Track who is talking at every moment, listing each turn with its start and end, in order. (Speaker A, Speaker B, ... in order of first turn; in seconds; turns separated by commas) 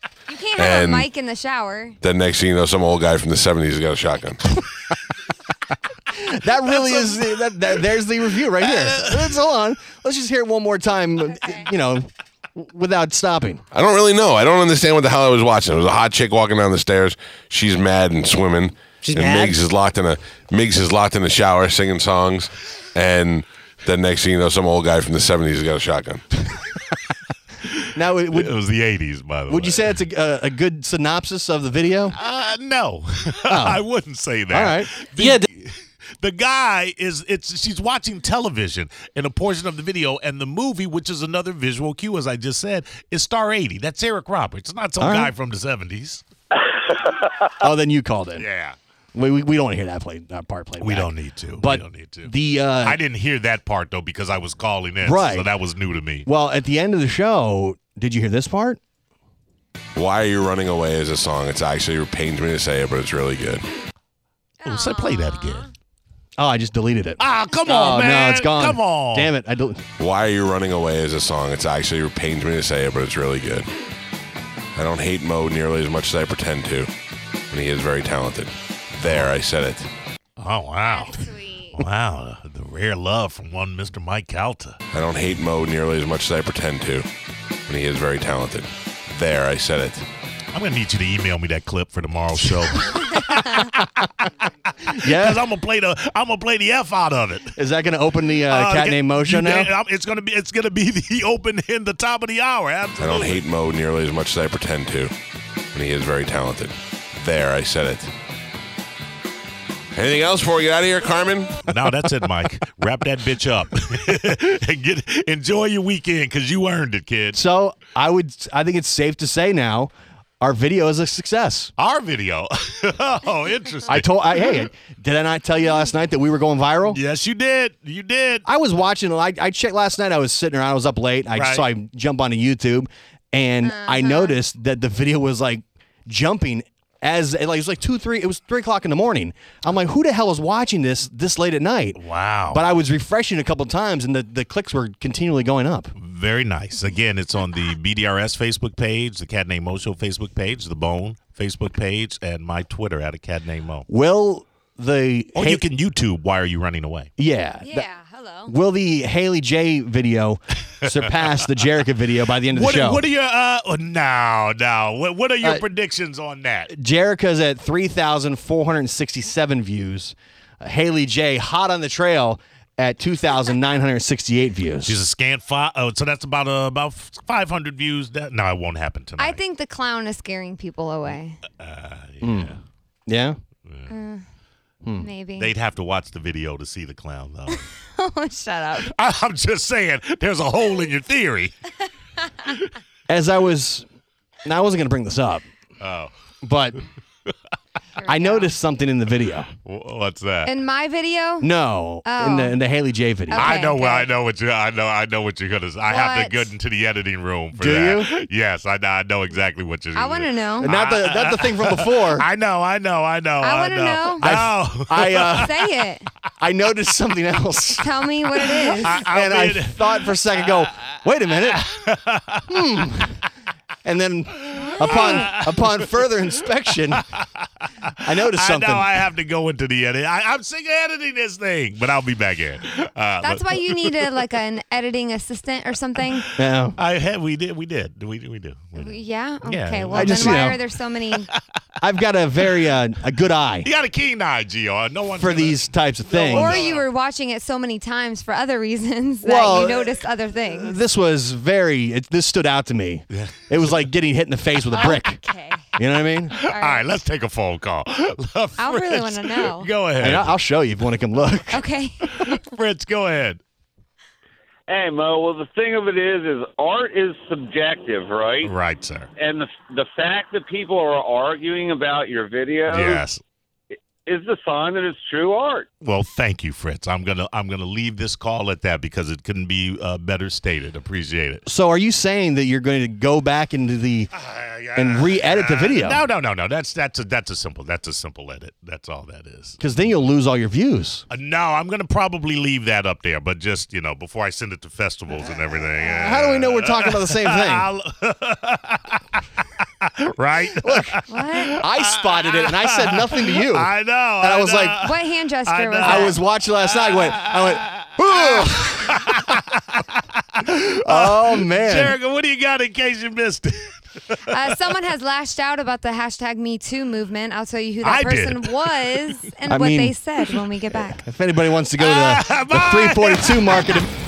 Speaker A: 0.3-2.0, Speaker B: 0.6-1.1, Speaker B: 2.0-4.5, Speaker C: 6.1-13.6, Speaker D: 6.8-7.2, Speaker D: 8.6-9.4, Speaker A: 11.3-11.7, Speaker B: 13.7-26.4, Speaker D: 27.6-30.0, Speaker C: 27.9-28.5, Speaker C: 29.5-32.2, Speaker D: 32.1-46.2, Speaker C: 33.4-33.8, Speaker C: 34.5-35.5, Speaker C: 45.0-45.3, Speaker C: 47.6-48.5, Speaker D: 48.4-48.8, Speaker C: 49.1-53.0, Speaker D: 50.8-56.3, Speaker C: 55.0-55.5, Speaker C: 56.2-58.8, Speaker B: 59.9-63.6, Speaker A: 64.6-65.7, Speaker D: 64.6-65.7, Speaker C: 66.4-69.8, Speaker D: 67.2-69.3, Speaker B: 70.0-73.7, Speaker B: 74.7-76.9, Speaker B: 77.5-79.9, Speaker D: 79.0-79.3, Speaker D: 80.4-84.8, Speaker A: 80.8-81.8, Speaker B: 84.9-87.1, Speaker B: 87.7-90.0, Speaker D: 90.5-97.5, Speaker C: 94.8-95.4, Speaker C: 97.5-99.7, Speaker D: 98.5-103.4, Speaker B: 103.0-105.1, Speaker B: 105.7-108.1, Speaker B: 109.9-111.6, Speaker D: 111.7-117.4, Speaker C: 117.3-121.7, Speaker D: 121.8-124.5, Speaker C: 123.9-127.0, Speaker D: 126.9-128.4, Speaker C: 128.4-145.9, Speaker D: 131.3-131.6, Speaker A: 133.6-134.3, Speaker D: 142.0-142.6, Speaker D: 145.9-153.9, Speaker C: 153.9-155.6, Speaker D: 155.3-157.1, Speaker C: 157.2-157.9, Speaker A: 157.6-158.5, Speaker C: 158.4-163.0, Speaker D: 160.9-161.2, Speaker D: 162.3-166.7, Speaker C: 166.7-175.0, Speaker D: 174.8-179.4, Speaker A: 179.2-181.4, Speaker D: 181.6-182.6, Speaker C: 182.2-182.5, Speaker C: 183.1-183.4, Speaker D: 183.7-183.9, Speaker A: 183.9-184.2, Speaker A: 184.9-185.5, Speaker D: 185.4-187.6, Speaker A: 187.5-188.9, Speaker D: 188.8-191.5, Speaker C: 193.1-193.8, Speaker C: 194.4-195.4, Speaker D: 195.8-196.1, Speaker C: 196.4-196.8, Speaker A: 198.0-198.5, Speaker C: 198.0-199.5, Speaker D: 199.6-200.5, Speaker A: 200.4-201.5, Speaker C: 201.4-203.6, Speaker A: 202.0-202.6, Speaker A: 203.3-204.1, Speaker D: 203.3-215.5, Speaker A: 205.9-206.5, Speaker C: 207.5-208.1, Speaker A: 209.9-210.7, Speaker C: 210.6-212.3, Speaker A: 213.4-214.3, Speaker C: 214.2-215.5, Speaker A: 215.3-216.1, Speaker C: 216.4-221.6, Speaker A: 217.8-219.0, Speaker D: 218.8-220.7, Speaker D: 221.4-222.8, Speaker C: 222.5-223.2, Speaker C: 223.8-227.0, Speaker D: 224.5-225.9, Speaker A: 224.6-225.3, Speaker D: 226.9-234.2, Speaker C: 228.0-229.0, Speaker A: 233.2-236.3, Speaker D: 236.1-240.6, Speaker C: 236.3-236.8, Speaker A: 238.8-241.3, Speaker C: 239.9-240.6, Speaker C: 241.8-243.7, Speaker D: 243.6-246.8, Speaker C: 245.2-246.6, Speaker A: 246.3-250.8, Speaker C: 249.2-255.2, Speaker D: 253.1-253.9, Speaker A: 254.8-255.6, Speaker C: 255.8-256.4, Speaker D: 256.3-260.3, Speaker A: 256.5-256.8, Speaker A: 258.6-259.7, Speaker C: 260.0-261.6, Speaker A: 261.5-262.4, Speaker D: 262.0-263.4, Speaker E: 264.7-268.5, Speaker D: 268.4-269.1, Speaker E: 269.2-272.8, Speaker D: 272.7-273.2, Speaker E: 274.1-275.6, Speaker D: 275.8-281.4, Speaker C: 281.4-284.1, Speaker D: 284.1-289.9, Speaker C: 284.7-286.0, Speaker C: 289.6-291.1, Speaker D: 291.1-306.2, Speaker C: 295.8-297.7, Speaker C: 300.6-301.0, Speaker A: 301.1-301.6, Speaker C: 301.6-304.9, Speaker A: 304.8-306.2, Speaker C: 305.8-309.1, Speaker D: 306.8-314.7, Speaker C: 310.8-312.0, Speaker A: 314.3-321.0, Speaker D: 317.8-319.1, Speaker C: 319.5-319.9, Speaker C: 320.7-323.9, Speaker D: 321.8-323.8